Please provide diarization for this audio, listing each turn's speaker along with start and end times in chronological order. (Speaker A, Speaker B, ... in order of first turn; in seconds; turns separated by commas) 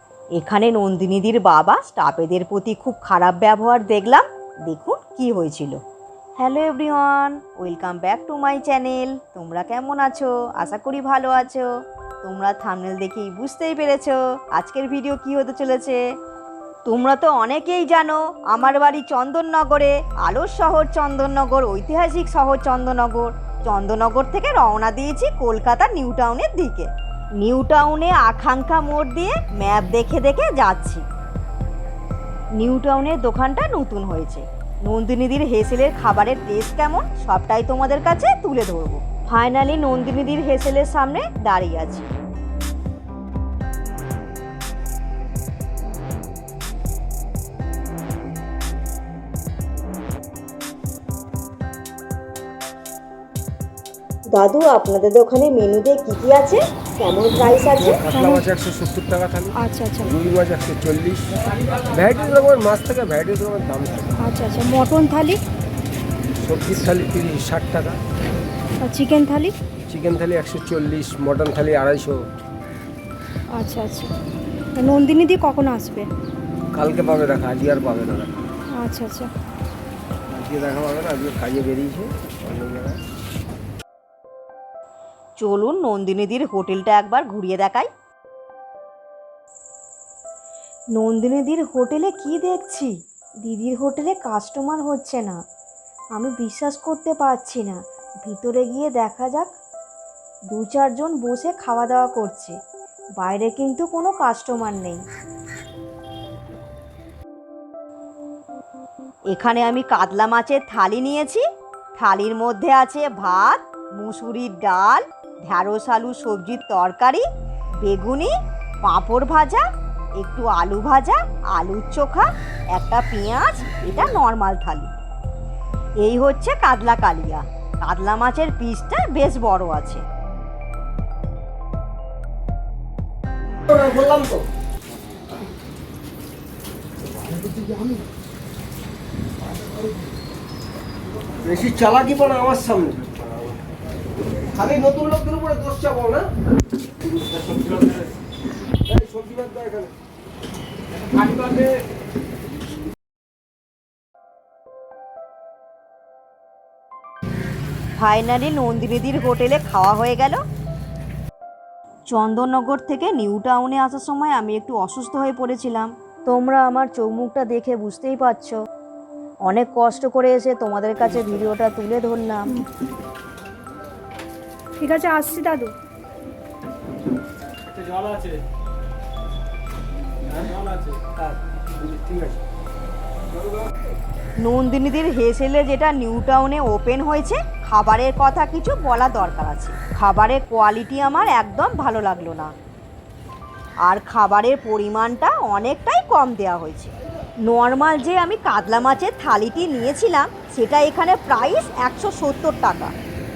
Speaker A: 0.4-5.8, Speaker A: 6.4-11.7, Speaker A: 12.2-16.0, Speaker A: 16.9-26.9, Speaker A: 27.4-31.1, Speaker A: 32.6-42.1, Speaker A: 54.3-58.0, Speaker B: 57.5-64.1, Speaker C: 58.1-58.5, Speaker C: 59.6-60.1, Speaker C: 64.2-65.4, Speaker B: 66.4-68.0, Speaker C: 68.8-69.5, Speaker B: 69.9-72.3, Speaker C: 73.5-74.1, Speaker C: 74.8-76.1, Speaker B: 76.7-78.4, Speaker C: 78.8-79.3, Speaker B: 80.3-83.0, Speaker A: 85.4-87.9, Speaker A: 91.0-95.4, Speaker A: 96.2-99.5, Speaker A: 100.5-102.6, Speaker A: 103.2-105.0, Speaker A: 109.3-111.4, Speaker A: 112.0-117.2, Speaker A: 117.8-118.3, Speaker A: 118.8-119.7, Speaker A: 120.2-124.9, Speaker A: 126.0-130.0, Speaker B: 133.7-134.4, Speaker B: 141.3-143.2, Speaker B: 144.4-146.3, Speaker B: 147.3-148.1, Speaker B: 148.9-149.9, Speaker B: 151.1-151.7, Speaker A: 158.0-160.4, Speaker A: 162.1-168.6, Speaker A: 169.5-172.6, Speaker C: 174.8-175.7, Speaker B: 177.8-178.2, Speaker B: 180.3-182.3, Speaker A: 184.4-192.5, Speaker A: 193.8-196.9, Speaker A: 197.4-202.9